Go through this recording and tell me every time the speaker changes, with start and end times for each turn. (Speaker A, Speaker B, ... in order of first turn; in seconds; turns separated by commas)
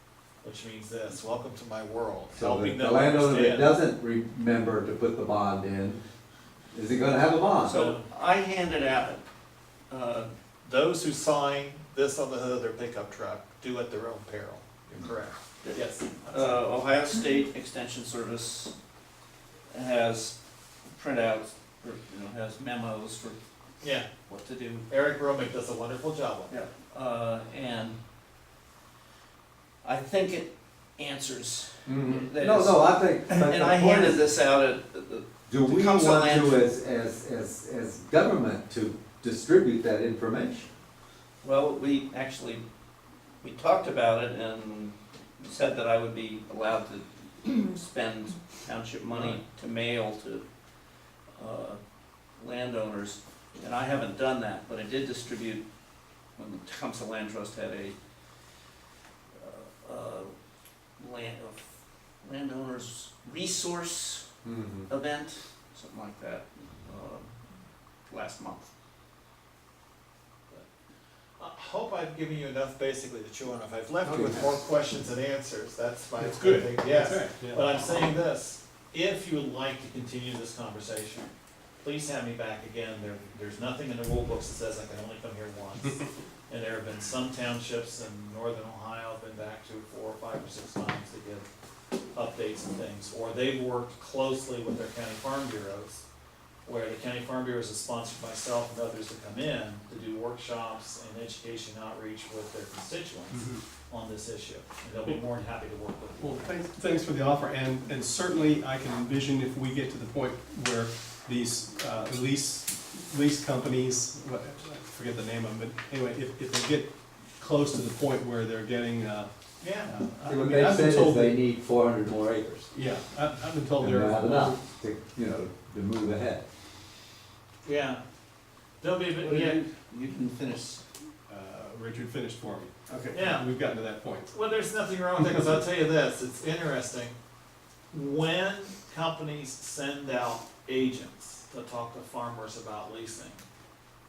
Speaker A: 0.4-3.8, Speaker B: 2.4-6.0, Speaker B: 6.7-7.9, Speaker C: 7.7-9.2, Speaker A: 7.7-8.1, Speaker C: 9.9-10.3, Speaker A: 10.6-16.7, Speaker C: 15.6-18.7, Speaker C: 19.7-20.4, Speaker C: 20.9-23.4, Speaker A: 23.8-24.1, Speaker C: 24.3-24.9, Speaker A: 24.9-26.6, Speaker C: 26.5-28.0, Speaker C: 29.8-36.7, Speaker B: 31.9-34.3, Speaker B: 35.5-40.7, Speaker C: 41.4-42.6, Speaker C: 43.4-50.4, Speaker C: 51.4-51.8, Speaker C: 52.4-55.6, Speaker C: 56.4-58.0, Speaker C: 59.4-60.3, Speaker C: 61.0-61.6, Speaker C: 62.2-64.2, Speaker B: 64.5-64.9, Speaker C: 64.9-67.3, Speaker C: 68.1-68.7, Speaker A: 71.4-81.3, Speaker B: 74.0-74.6, Speaker D: 76.2-77.7, Speaker A: 81.8-91.5, Speaker A: 92.1-96.0, Speaker A: 96.7-106.6, Speaker D: 103.3-103.6, Speaker D: 106.2-119.3, Speaker A: 119.6-120.4, Speaker D: 119.8-121.4, Speaker B: 120.3-122.7, Speaker D: 122.7-124.6, Speaker B: 123.8-126.5, Speaker A: 127.6-128.0, Speaker A: 128.8-129.6, Speaker C: 129.2-130.8, Speaker D: 131.3-134.3, Speaker A: 133.1-133.5, Speaker A: 134.3-137.2, Speaker A: 137.9-143.4